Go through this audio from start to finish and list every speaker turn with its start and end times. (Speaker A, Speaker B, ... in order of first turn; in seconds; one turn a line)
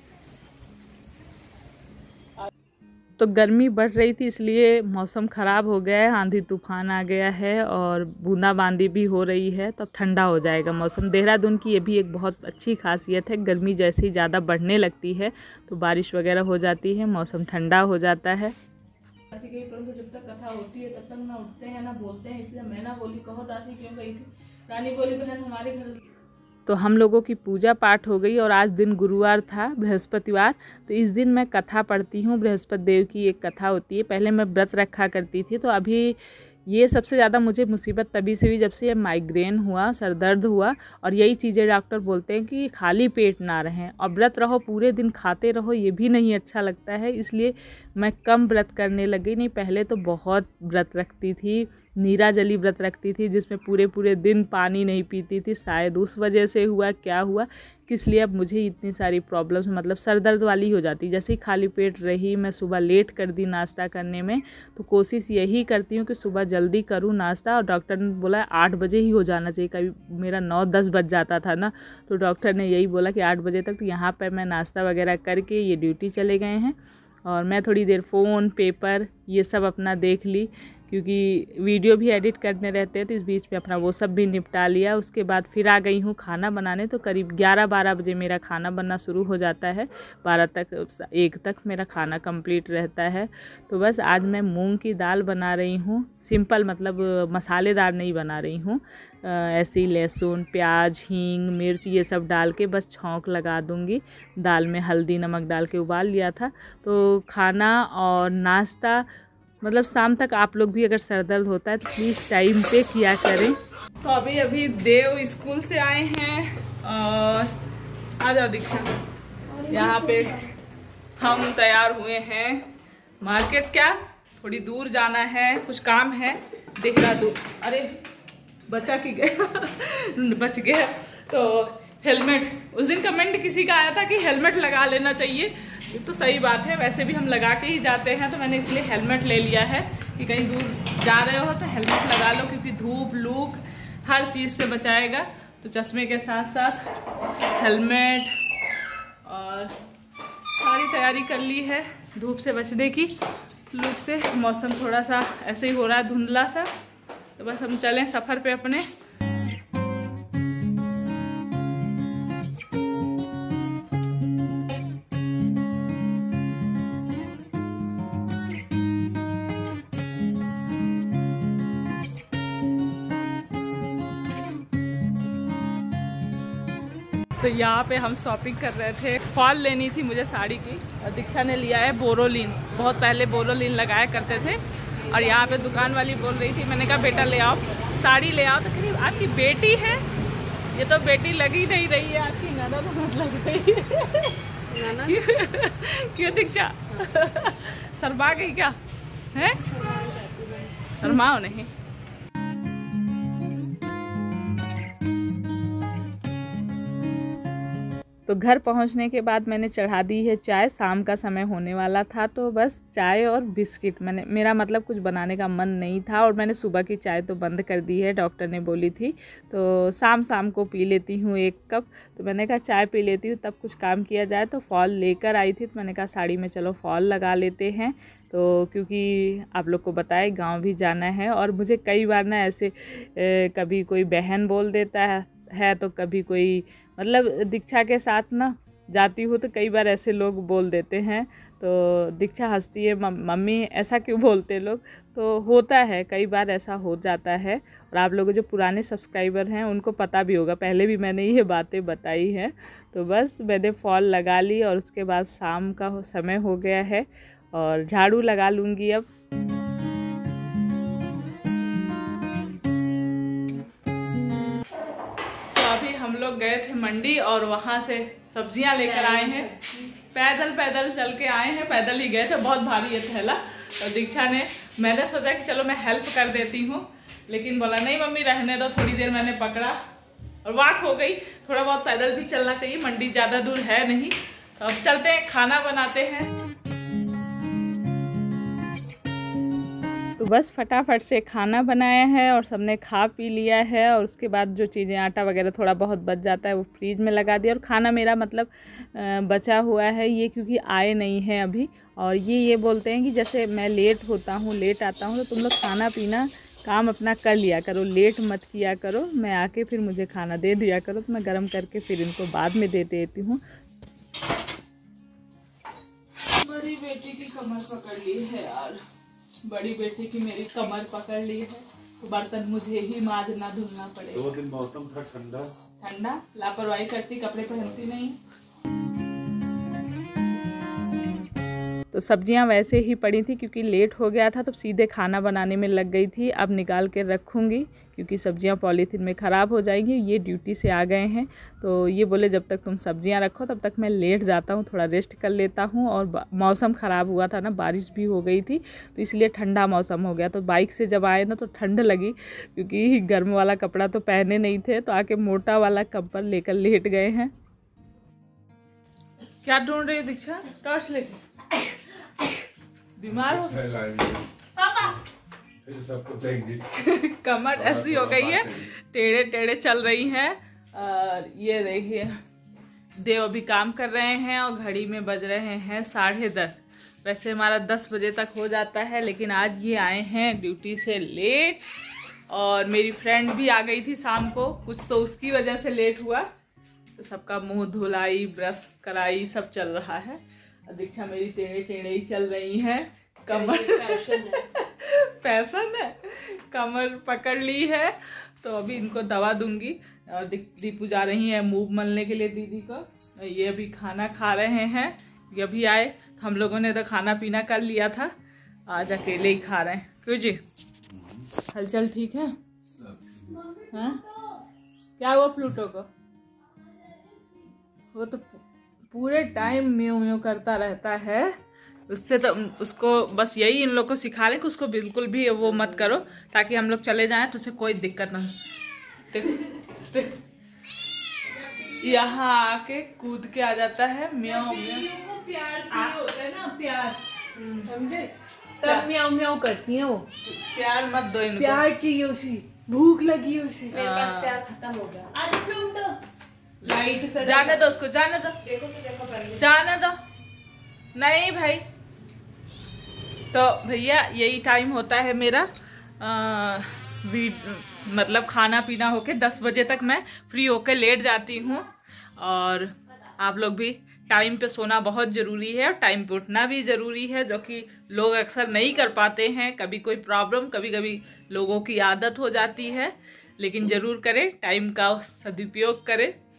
Speaker A: 3.2-18.5
Speaker A: 19.3-26.0
Speaker A: 26.6-109.0
Speaker A: 109.6-117.5
Speaker A: 118.2-118.9
Speaker B: 119.5-120.5
Speaker A: 119.7-120.4
Speaker A: 121.2-122.6
Speaker A: 123.2-127.9
Speaker A: 128.7-146.8
Speaker A: 147.5-148.3
Speaker A: 149.2-149.7
Speaker A: 150.6-153.1
Speaker A: 153.7-156.7
Speaker A: 157.4-158.8
Speaker A: 177.4-190.0
Speaker A: 190.7-198.8
Speaker B: 194.7-195.2
Speaker A: 199.3-199.6
Speaker B: 199.6-201.1
Speaker A: 201.0-201.7
Speaker A: 208.3-259.1
Speaker A: 265.5-269.5
Speaker B: 268.8-269.9
Speaker A: 270.1-279.8
Speaker A: 280.4-286.3
Speaker A: 290.2-313.4
Speaker A: 316.3-318.8
Speaker A: 319.4-324.4
Speaker C: 324.1-325.5
Speaker A: 325.8-328.1
Speaker A: 331.9-357.3
Speaker A: 359.4-361.2
Speaker A: 363.0-363.6
Speaker C: 363.1-364.2
Speaker C: 365.6-366.6
Speaker A: 366.8-372.1
Speaker C: 367.5-368.6
Speaker A: 373.0-381.6
Speaker A: 382.3-386.3
Speaker A: 387.0-408.1
Speaker B: 393.3-394.4
Speaker A: 408.7-410.4
Speaker C: 410.9-411.2
Speaker A: 411.4-412.4
Speaker B: 413.3-414.1
Speaker A: 413.7-414.0
Speaker A: 415.0-415.9
Speaker B: 416.8-417.3
Speaker A: 417.9-421.3
Speaker A: 421.9-428.4
Speaker A: 429.1-430.2
Speaker B: 431.4-431.9
Speaker A: 431.7-434.9
Speaker B: 434.2-437.0
Speaker A: 435.7-436.0
Speaker A: 437.4-437.7
Speaker B: 437.6-440.1
Speaker A: 438.6-438.9
Speaker A: 440.3-441.6
Speaker B: 441.4-446.0
Speaker A: 443.7-444.4
Speaker B: 446.6-447.7
Speaker A: 446.6-448.5
Speaker B: 448.4-449.4
Speaker A: 449.3-450.0
Speaker A: 450.9-451.6
Speaker A: 453.3-455.5
Speaker A: 456.0-476.1